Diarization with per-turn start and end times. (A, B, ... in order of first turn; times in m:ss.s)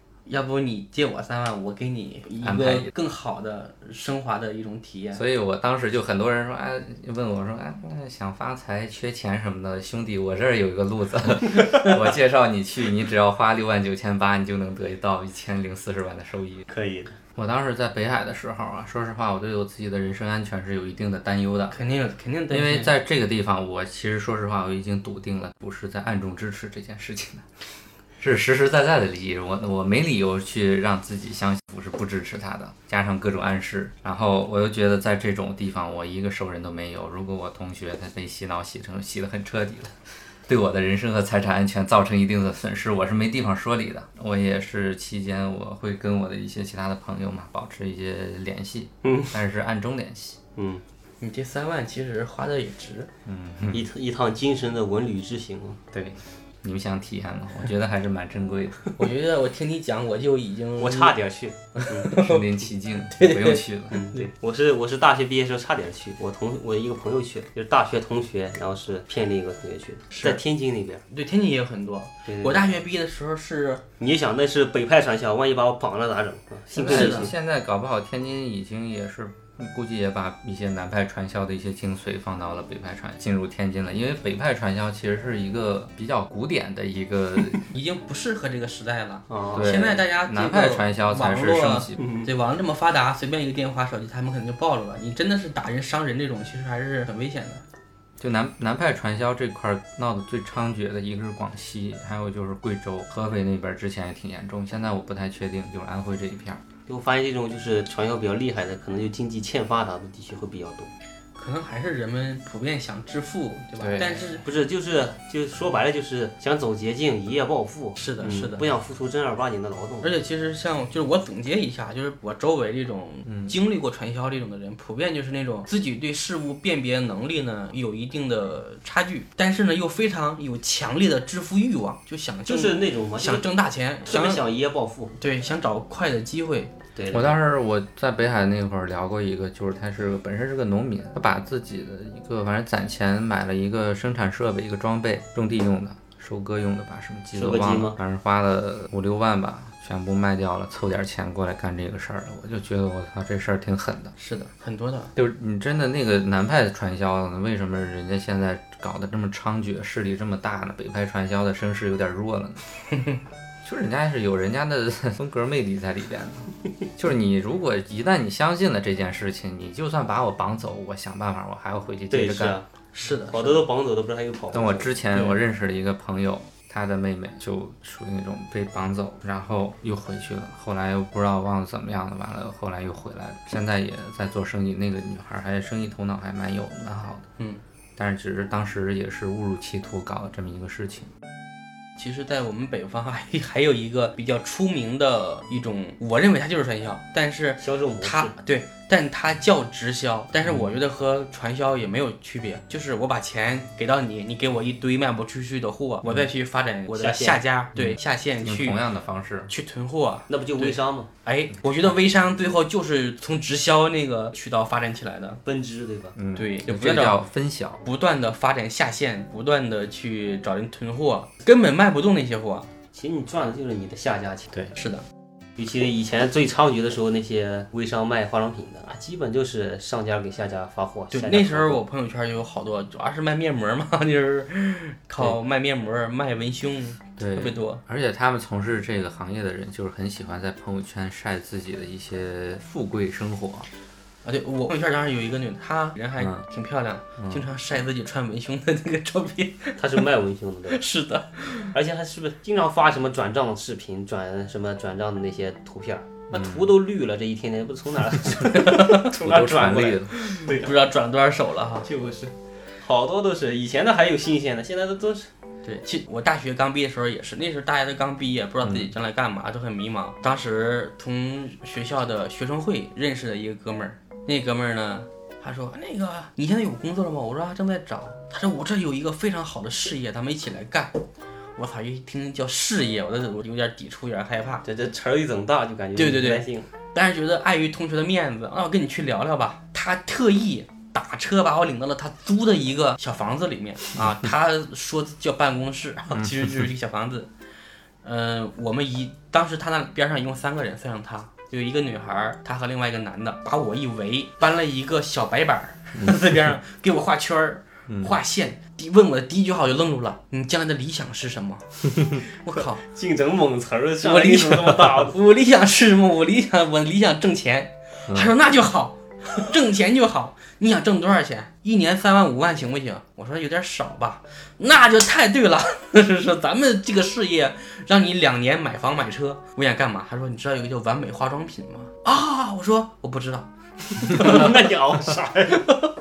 0:00.3-0:05.2 A
0:02.4-0:02.9 B
0:05.2-0:16.7 B
0:16.7-0:17.2 C
0:17.4-0:21.8 B
0:21.7-0:22.9 A
0:22.5-0:27.5 B
0:28.2-0:50.4 B
0:49.0-0:49.4 C
0:50.6-0:50.8 C
0:51.2-0:53.1 A
0:53.3-0:53.9 B
0:53.7-0:55.8 C
0:55.9-0:58.9 B
0:59.0-1:01.2 A
1:00.8-1:02.1 C
1:01.8-1:02.5 A
1:02.1-1:04.0 B
1:03.1-1:04.3 A
1:03.9-1:11.0 C
1:10.1-1:10.4 A
1:11.1-1:13.8 A
1:12.3-1:12.8 C
1:14.0-1:17.3 C
1:16.8-1:27.7 B
1:16.8-1:17.3 A
1:27.7-1:37.6 A
1:29.3-1:29.7 C
1:29.5-1:32.0 B
1:32.0-1:32.3 C
1:38.2-1:46.6 B
1:46.9-1:50.9 C
1:51.4-1:54.4 A
1:53.8-1:54.2 B
1:54.4-2:00.1 C
1:58.0-1:58.7 A
2:00.0-2:14.4 A
2:03.3-2:03.6 B
2:12.5-2:13.5 C
2:14.0-2:15.1 C
2:15.2-2:16.7 A
2:17.0-2:17.4 C
2:17.1-2:34.1 B
2:27.4-2:28.0 C
2:34.2-2:35.1 A
2:35.2-2:42.6 B
2:43.6-2:52.6 B
2:52.1-2:52.7 C
2:52.9-2:53.6 A
2:53.3-2:54.9 C
2:54.5-3:07.3 B
3:08.0-3:11.1 B
3:12.0-3:28.8 A
3:17.6-3:18.4 C
3:27.0-3:27.4 C
3:27.8-3:29.5 B
3:29.5-3:35.4 A
3:30.3-3:31.1 C
3:35.5-3:36.2 C
3:36.2-3:37.8 B
3:36.4-3:37.2 A
3:37.8-3:42.7 A
3:42.9-3:44.5 C
3:44.8-3:45.0 A
3:45.6-3:51.8 C
3:51.1-3:57.8 A
3:57.2-4:03.7 B
4:04.2-4:10.0 A
4:06.2-4:06.4 B
4:07.2-4:07.5 B
4:09.8-4:10.8 C
4:10.7-4:11.7 A
4:11.7-4:20.8 C
4:16.3-4:16.7 B
4:18.4-4:19.1 A
4:18.7-4:20.1 B
4:20.1-4:21.9 A
4:21.8-4:25.3 C
4:25.6-4:41.0 A
4:28.6-4:28.9 B
4:41.6-4:44.6 A
4:44.6-4:46.7 C
4:46.0-4:57.3 A
4:56.2-4:56.5 B
4:58.0-5:12.8 A
5:07.9-5:08.2 B
5:12.6-5:15.2 C
5:14.0-5:34.6 A
5:18.1-5:18.3 B
5:34.1-5:35.7 C
5:35.5-5:35.8 A